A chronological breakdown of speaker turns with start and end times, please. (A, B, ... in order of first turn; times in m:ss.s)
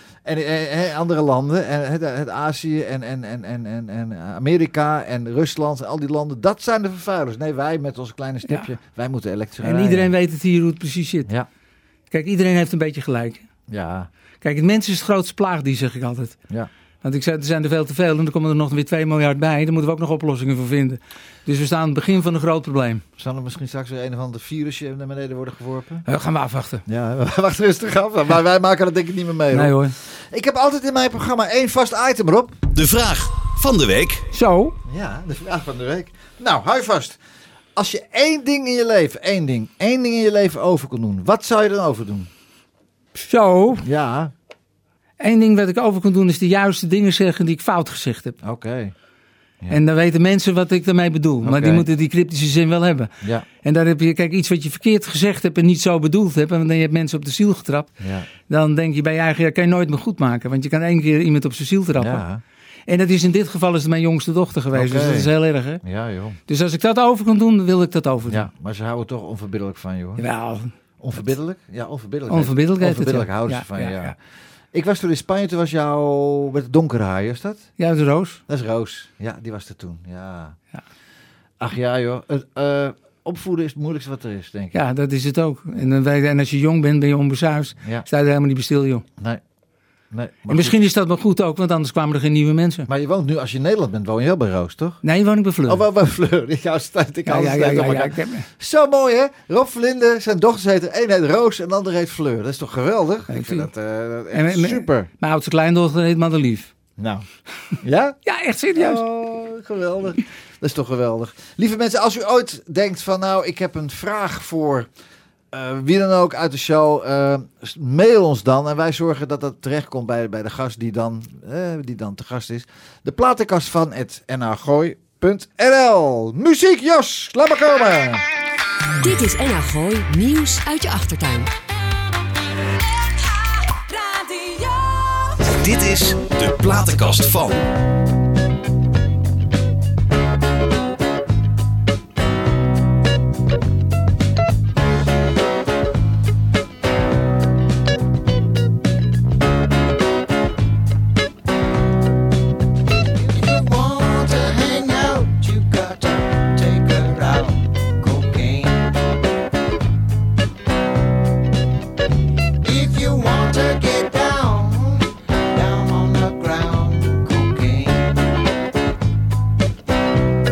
0:00.2-0:10.1 A
0:09.6-0:11.3 B
0:12.1-0:13.4 B
0:13.7-0:14.1 A
0:14.4-0:16.4 B
0:17.0-0:23.0 B
0:23.2-0:26.0 A
0:26.1-0:26.8 B
0:26.8-0:29.8 A
0:29.5-0:29.9 B
0:30.3-0:32.6 A
0:32.7-0:34.2 C
0:34.3-0:34.8 B
0:34.8-0:37.2 A
0:37.8-0:42.3 A
0:43.2-0:43.8 B
0:43.8-0:44.3 A
0:45.2-0:48.4 B
0:48.4-0:48.9 A
0:49.7-0:53.1 B
0:51.4-0:51.8 A
0:53.6-0:57.9 B
0:58.0-0:58.3 A
0:58.5-1:02.2 B
1:02.0-1:02.4 A
1:02.9-1:05.8 B
1:04.7-1:05.3 A
1:05.8-1:06.4 A
1:06.5-1:08.4 B
1:08.3-1:10.2 A
1:10.2-1:10.7 B
1:11.0-1:14.2 A
1:12.3-1:14.1 B
1:14.7-1:17.6 A
1:17.8-1:18.4 B
1:18.5-1:20.6 A
1:21.6-1:24.8 A
1:24.7-1:29.0 B
1:27.8-1:28.0 A
1:30.1-1:30.8 A
1:30.5-1:32.9 B
1:32.9-1:35.0 A
1:35.0-1:35.8 B
1:35.6-1:45.1 A
1:37.2-1:38.5 B
1:43.3-1:43.7 B
1:44.3-1:46.7 B
1:47.0-1:47.2 A
1:47.8-1:48.2 A
1:48.2-1:49.0 B
1:48.8-1:54.9 A
1:55.5-2:08.2 A
2:09.0-2:11.5 D
2:13.2-2:15.3 D
2:15.4-2:17.6 C
2:33.1-2:39.0 E
2:42.6-2:48.2 E